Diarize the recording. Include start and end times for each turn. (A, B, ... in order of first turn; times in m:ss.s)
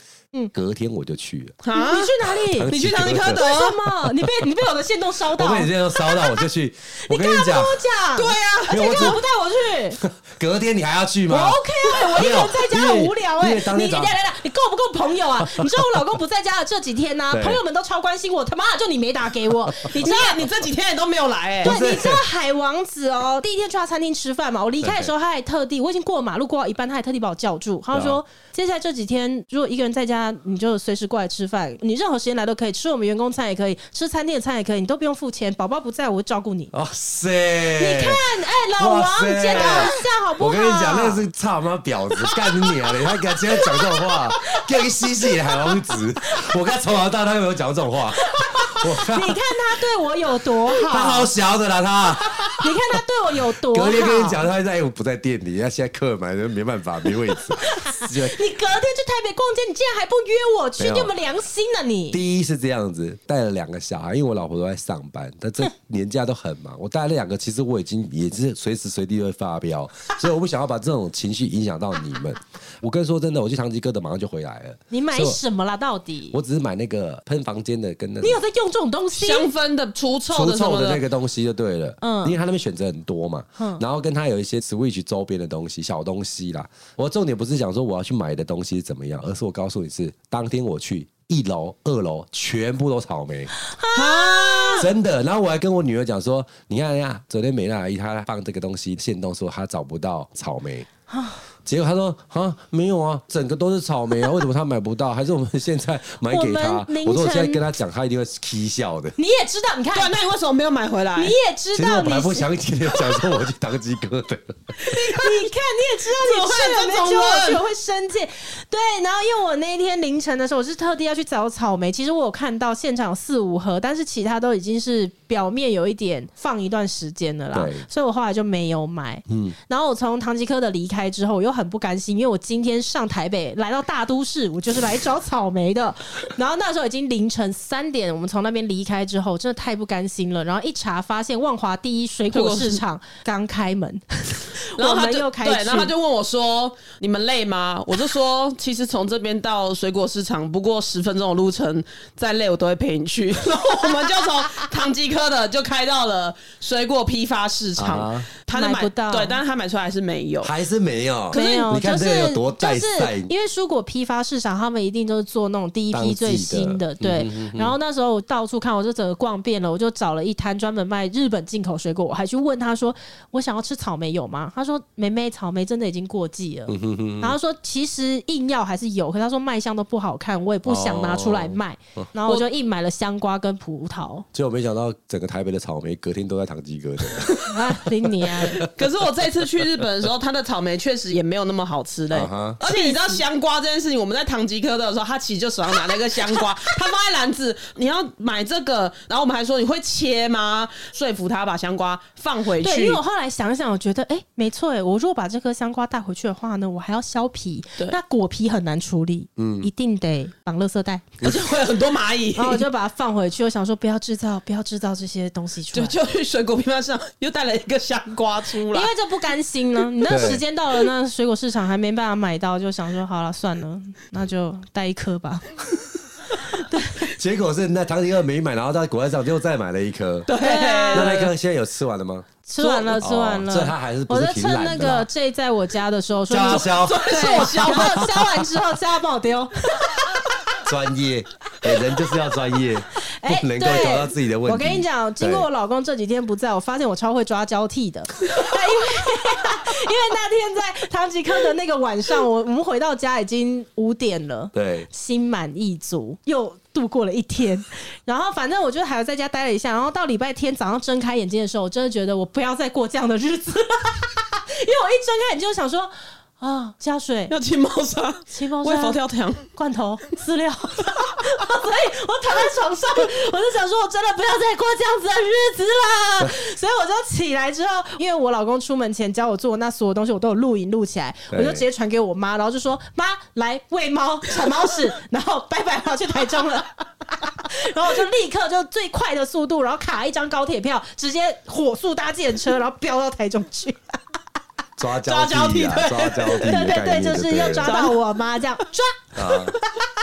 0:00.5-0:01.6 A
0:01.6-0:03.8 B
0:01.7-0:06.4 C
0:02.5-0:03.4 A
0:05.3-0:07.8 A
0:07.0-0:10.0 C
0:08.2-0:09.2 B
0:08.7-0:09.2 A
0:10.0-0:14.1 A
0:11.3-0:20.4 C
0:17.3-0:17.6 A
0:20.0-0:21.8 B
0:21.6-0:22.3 A
0:21.6-0:36.7 C
0:24.8-0:25.1 A
0:27.9-0:28.2 A
0:36.7-0:49.4 A
0:37.8-0:41.2 C
0:42.3-0:46.3 C
0:48.2-0:51.3 C
0:50.7-0:58.4 A
0:52.5-0:54.4 C
0:57.3-1:02.2 C
1:00.8-1:01.1 A
1:02.1-1:15.4 A
1:14.9-1:16.4 C
1:16.3-1:18.4 A
1:18.2-1:19.5 C
1:19.1-1:21.0 B
1:20.3-1:33.5 A
1:22.0-1:22.4 C
1:23.6-1:23.8 C
1:33.5-1:34.9 C
1:33.9-1:34.9 B
1:34.8-1:40.9 A
1:41.1-1:41.4 C
1:41.6-1:49.1 A
1:46.3-1:47.6 C
1:49.2-1:50.1 C
1:49.9-1:51.3 B
1:51.1-1:52.5 C
1:51.7-1:54.8 A
1:54.8-1:55.5 B
1:54.9-2:25.9 C
1:56.1-1:57.6 B
2:07.5-2:07.8 A
2:09.3-2:09.5 A
2:22.3-2:22.8 B
2:24.8-2:40.5 B
2:37.8-2:38.3 A
2:38.5-2:39.4 C
2:40.4-2:43.3 A
2:41.3-2:41.7 B
2:41.3-3:04.2 C
2:45.9-2:47.7 A
2:56.7-2:57.4 A
3:00.6-3:02.1 A
3:04.3-3:08.7 A
3:07.4-3:08.7 C
3:08.6-3:23.0 B
3:12.1-3:12.6 A
3:12.6-3:13.2 C
3:15.9-3:16.4 C
3:22.6-3:31.2 C
3:29.4-3:29.7 A
3:31.2-3:32.6 B
3:32.3-3:36.0 C
3:35.7-3:38.9 B
3:38.7-3:45.6 C
3:40.0-3:40.4 A
3:46.3-3:47.1 C
3:47.1-3:50.3 A
3:50.3-3:51.3 B
3:50.4-3:51.2 C
3:50.9-3:55.1 A
3:52.4-4:00.2 C
3:56.3-3:58.5 A
3:56.4-3:58.0 B
4:00.6-4:05.5 A
4:03.0-4:27.3 C
4:14.5-4:14.9 A
4:27.3-4:29.5 B
4:28.3-4:53.9 C
4:41.3-4:41.6 A
4:54.8-4:57.8 A
4:55.0-4:56.6 B
4:56.3-4:59.8 C
4:57.6-4:58.0 B
4:59.1-4:59.5 A